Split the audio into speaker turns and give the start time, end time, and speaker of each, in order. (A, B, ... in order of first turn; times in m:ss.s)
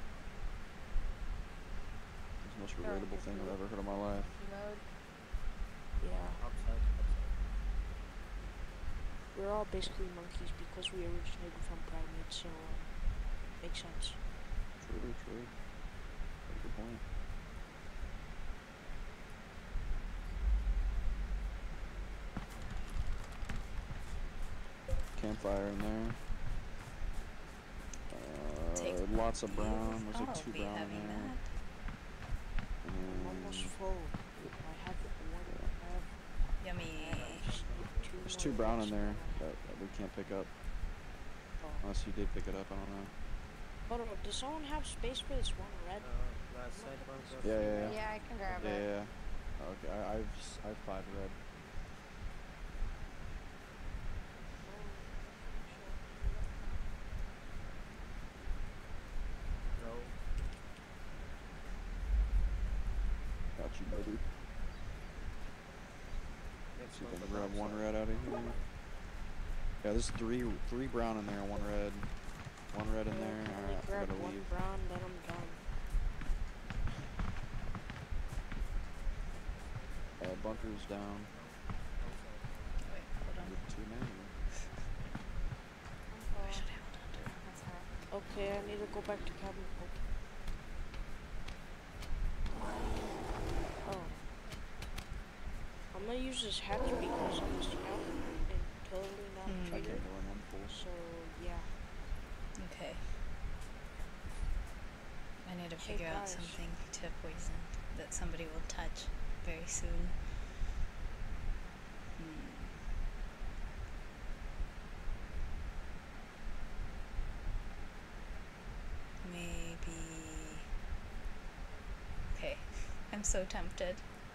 0:02.4-0:04.3 A
0:02.8-0:04.8 B
0:06.0-0:06.4 C
0:06.4-0:07.4 D
0:09.3-0:13.0 C
0:13.5-0:14.2 C
0:14.8-0:15.8 A
0:16.4-0:17.0 A
0:25.1-0:26.3 A
0:28.1-0:31.4 A
0:28.7-0:31.5 E
0:32.8-0:33.8 A
0:33.0-0:36.2 C
0:35.4-0:35.8 A
0:36.6-0:37.5 E
0:36.9-0:39.4 C
0:37.1-0:38.3 D
0:38.2-0:40.5 A
0:41.6-0:41.8 C
0:41.8-0:43.1 A
0:43.8-0:48.1 C
0:46.0-0:48.2 D
0:47.4-0:48.0 A
0:47.9-0:48.9 B
0:48.5-0:51.4 A
0:54.6-0:56.8 C
0:59.7-1:00.1 D
1:03.5-1:04.3 A
1:06.8-1:08.7 D
1:06.8-1:08.6 A
1:09.8-1:14.5 A
1:13.0-1:15.6 C
1:20.0-1:22.8 D
1:20.2-1:21.3 A
1:22.8-1:23.6 E
1:23.4-1:24.4 A
1:26.1-1:28.0 B
1:26.4-1:27.4 E
1:28.1-1:30.0 C
1:33.8-1:34.3 C
1:35.9-1:41.8 C
1:39.4-1:40.0 E
1:39.6-1:40.8 A
1:42.6-1:43.1 E
1:45.4-1:50.2 E
1:45.8-1:46.6 C
1:52.2-1:52.8 E
1:59.2-2:00.6 E
2:02.3-2:04.0 E